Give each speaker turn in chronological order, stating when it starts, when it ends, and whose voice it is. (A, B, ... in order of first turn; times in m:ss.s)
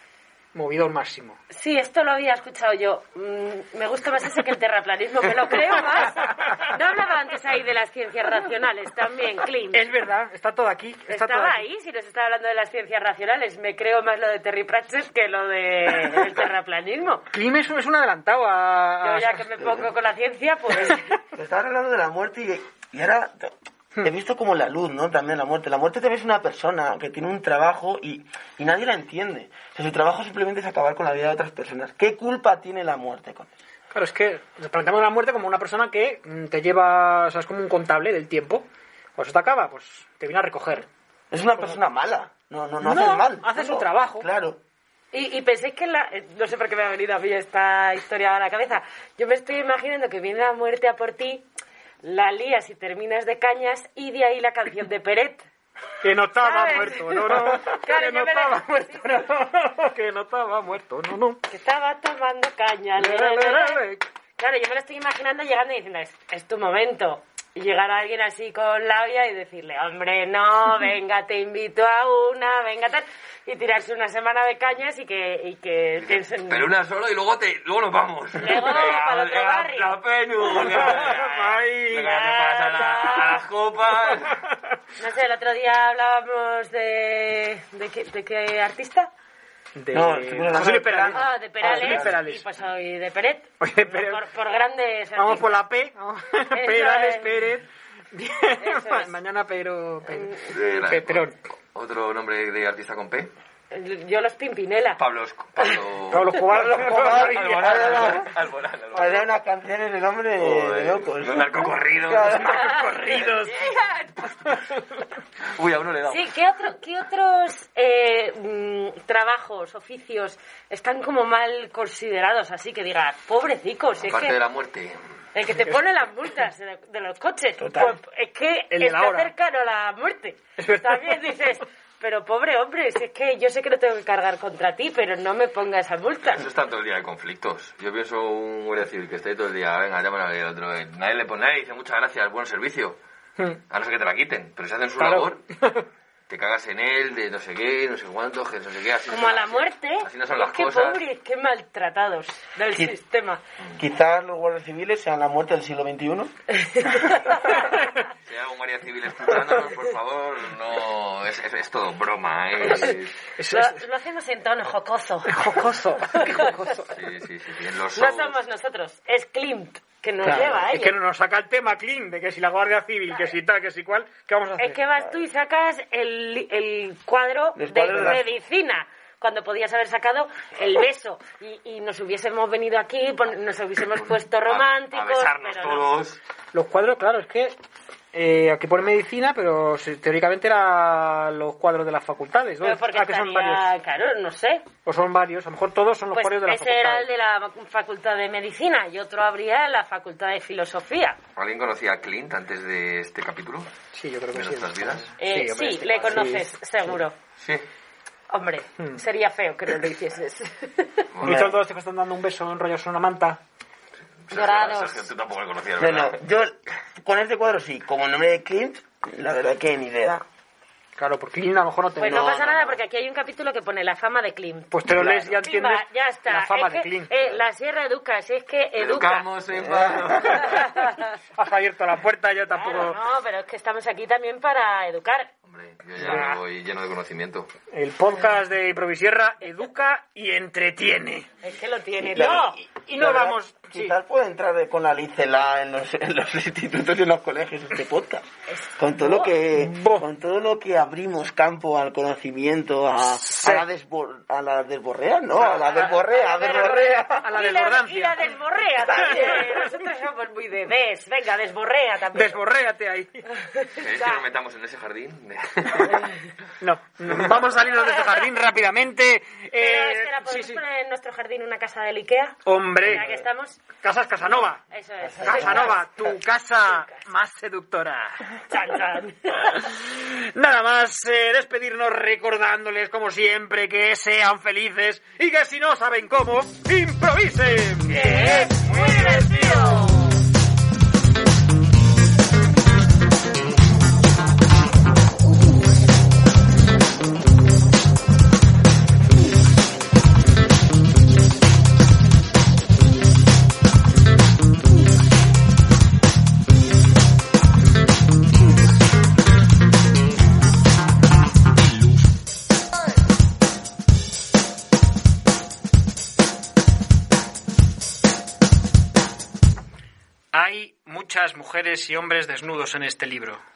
0:00.5-0:01.4 A
0:01.5-0:09.9 B
0:09.7-0:11.6 A
0:11.1-0:17.2 B
0:17.3-0:19.4 A
0:19.0-0:21.2 B
0:21.3-0:33.5 C
0:33.9-0:40.9 A
0:41.3-0:44.6 C
0:42.8-0:44.3 A
0:45.1-0:51.5 B
0:52.0-0:55.4 B
0:56.0-1:01.4 A
0:56.4-0:59.2 B
1:01.5-1:03.8 B
1:03.0-1:04.0 A
1:04.4-1:16.7 B
1:16.0-1:24.4 D
1:18.4-1:20.0 B
1:20.6-1:22.1 A
1:22.0-1:23.4 B
1:25.0-1:29.1 B
1:29.7-1:32.4 A
1:29.9-1:32.1 C
1:31.1-1:35.6 B
1:33.6-1:34.2 A
1:35.2-1:41.4 A
1:36.5-1:37.6 B
1:38.6-1:39.1 B
1:40.1-1:40.4 B
1:40.5-1:43.3 D
1:43.7-1:45.0 B
1:45.0-1:49.3 D
1:46.1-1:48.2 A
1:46.5-1:48.3 C
1:48.9-1:52.8 C
1:50.4-1:54.8 D
1:52.5-1:52.9 B
1:52.9-1:53.5 A
1:55.4-1:56.2 D
1:56.1-2:04.4 B
2:04.0-2:05.0 D
2:05.3-2:16.5 B
2:07.6-2:08.0 C
2:08.7-2:09.3 A
2:10.6-2:11.4 A
2:16.2-2:23.0 D
2:23.7-2:25.4 D
2:25.0-2:25.8 A
2:26.3-2:31.0 D
2:29.1-2:33.4 B
2:32.7-2:33.0 C
2:33.8-2:36.3 C
2:36.6-2:37.7 B
2:38.2-2:43.2 D
2:42.9-2:43.8 A
2:43.5-2:45.3 B
2:45.3-2:47.0 A
2:46.2-2:46.5 B
2:46.3-2:48.4 D
2:47.9-2:50.9 B
2:50.2-2:50.5 C
2:50.3-2:54.8 A
2:54.6-3:06.0 B
2:57.6-2:58.2 C
3:04.4-3:06.2 D
3:06.5-3:07.6 A
3:08.1-3:13.7 A
3:12.6-3:14.6 B
3:14.8-3:17.1 A
3:16.1-3:21.2 B
3:21.4-3:23.7 D
3:23.9-3:26.5 A
3:24.3-3:25.1 D
3:25.2-3:27.1 B
3:27.4-3:27.6 D
3:28.3-3:31.1 B
3:31.1-3:31.4 D
3:31.2-3:33.4 A
3:31.2-3:31.6 C
3:34.2-3:36.2 D
3:34.3-3:35.1 B
3:35.8-3:40.2 C
3:41.0-3:42.3 A
3:42.0-3:49.2 B
3:42.0-3:42.7 C
3:44.7-3:47.3 A
3:48.7-3:50.8 D
3:49.7-3:50.2 C
3:50.3-3:51.0 B
3:51.3-3:53.0 A
3:52.6-3:55.3 B
3:55.4-3:57.5 D
3:56.0-3:56.4 A
3:56.0-3:56.3 B
3:57.7-4:01.3 A
4:01.4-4:02.5 B
4:02.1-4:08.2 C
4:02.1-4:03.9 A
4:08.5-4:09.3 B
4:08.8-4:17.2 C
4:09.5-4:10.1 A
4:13.0-4:13.6 A
4:15.5-4:15.9 A
4:15.7-4:22.4 B
4:17.2-4:18.2 A
4:18.8-4:19.4 C
4:19.0-4:19.4 A
4:22.1-4:23.3 A
4:23.5-4:24.2 B
4:23.8-4:26.2 D
4:26.6-4:30.6 A
4:29.6-4:33.6 B
4:32.4-4:33.2 A
4:33.8-4:34.6 A
4:34.2-4:36.9 B
4:35.0-4:35.8 C
4:35.2-4:38.2 A
4:38.5-4:39.5 B
4:39.4-4:49.9 A
4:47.9-4:50.2 B
5:20.3-5:23.4 A